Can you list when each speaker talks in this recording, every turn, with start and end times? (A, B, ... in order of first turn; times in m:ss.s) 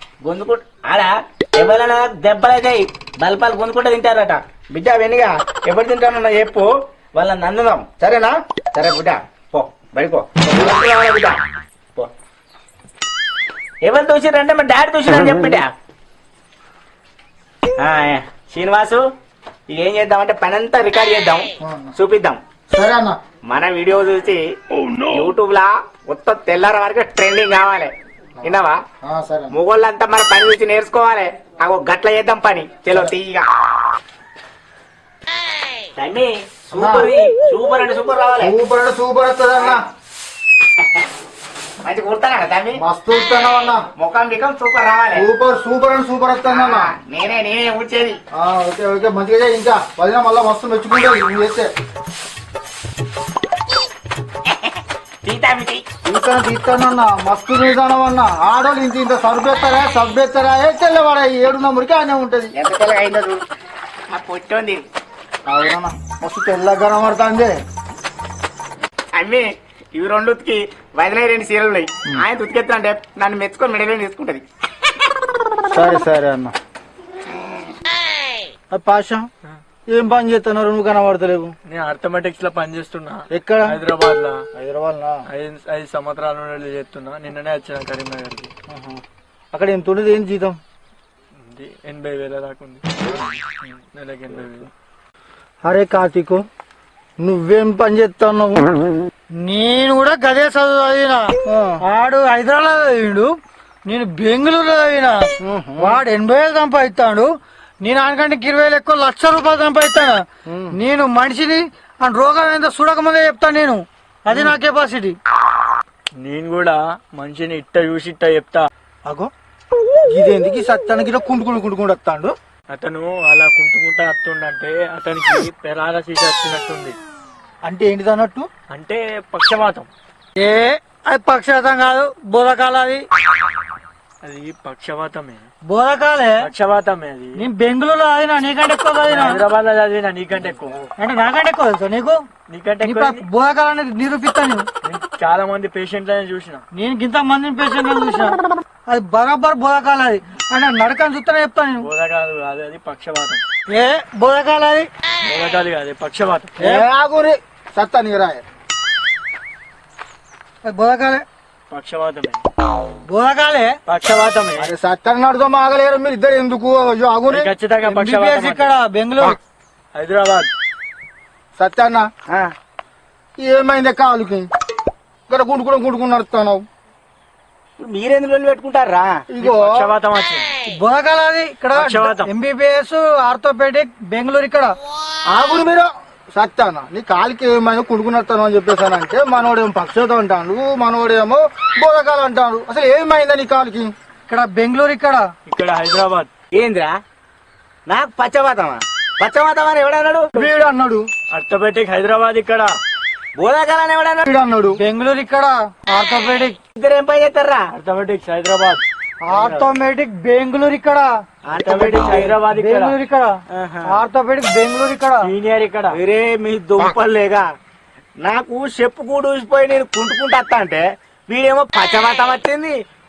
0:00.2-0:11.4 A
0:13.8-0:15.7 A
0:17.8-0:19.0 A
0:19.7-0:22.4 A
0:21.6-0:21.9 B
0:22.7-0:23.2 B
0:23.4-0:24.4 A
0:25.0-0:27.9 A
0:28.4-0:29.5 B
0:28.4-0:28.8 A
0:29.5-0:33.4 A
0:36.0-0:38.5 A
0:36.7-0:37.1 B
0:38.4-0:39.8 B
0:41.8-0:42.8 A
0:42.7-0:43.9 B
0:44.0-0:45.2 A
0:45.1-0:46.9 B
0:46.5-0:48.2 A
0:48.3-0:51.7 B
0:55.2-0:55.8 A
0:56.0-1:02.5 B
1:02.5-1:03.4 A
1:04.1-1:04.8 A
1:05.4-1:07.5 B
1:09.1-1:14.4 A
1:15.7-1:16.5 B
1:18.7-1:19.3 B
1:19.9-1:21.5 B
1:21.7-1:24.4 C
1:23.3-1:23.8 B
1:24.5-1:25.2 B
1:25.3-1:28.5 C
1:28.7-1:29.0 B
1:29.5-1:30.6 B
1:31.4-1:34.7 C
1:37.2-1:38.6 B
1:39.4-1:43.3 D
1:41.5-1:41.8 B
1:43.8-1:47.3 D
1:45.4-1:46.0 B
1:47.8-1:50.2 D
1:50.5-1:50.7 B
1:50.7-1:55.2 D
1:56.2-1:58.7 C
2:00.1-2:02.3 B
2:02.7-2:07.0 C
2:07.6-2:08.5 B
2:08.7-2:09.9 C
2:10.4-2:13.0 D
2:14.2-2:15.5 C
2:15.6-2:16.5 D
2:16.4-2:17.5 C
2:17.4-2:19.4 D
2:19.0-2:20.9 C
2:21.0-2:22.2 D
2:22.5-2:23.2 C
2:22.8-2:24.7 D
2:24.8-2:26.6 C
2:26.7-2:31.9 D
2:31.8-2:33.4 C
2:33.7-2:34.9 D
2:35.2-2:36.6 C
2:36.6-2:38.4 B
2:36.6-2:36.8 D
2:40.6-2:41.2 D
2:41.7-2:42.4 C
2:43.1-2:43.8 D
2:43.9-2:44.7 C
2:44.6-2:47.5 B
2:47.3-2:48.8 C
2:47.8-2:49.4 D
2:49.9-2:50.5 C
2:51.6-2:52.1 B
2:52.3-2:52.5 A
2:53.4-2:54.5 B
2:55.3-2:56.6 B
2:57.8-2:59.2 A
2:59.3-2:59.9 B
2:59.4-3:00.6 C
3:00.7-3:04.8 D
3:01.7-3:02.3 C
3:05.3-3:13.9 B
3:14.3-3:15.3 D
3:15.5-3:16.3 C
3:16.5-3:17.0 A
3:17.9-3:20.5 A
3:20.3-3:21.1 B
3:21.3-3:22.8 C
3:23.4-3:24.3 A
3:24.2-3:24.8 B
3:24.8-3:26.6 D
3:26.7-3:27.7 A
3:27.7-3:29.8 C
3:29.2-3:31.1 D
3:31.4-3:32.4 A
3:31.5-3:33.0 C
3:32.5-3:35.3 D
3:33.5-3:34.0 A
3:35.2-3:36.0 C
3:35.9-3:37.5 A
3:38.2-3:42.8 A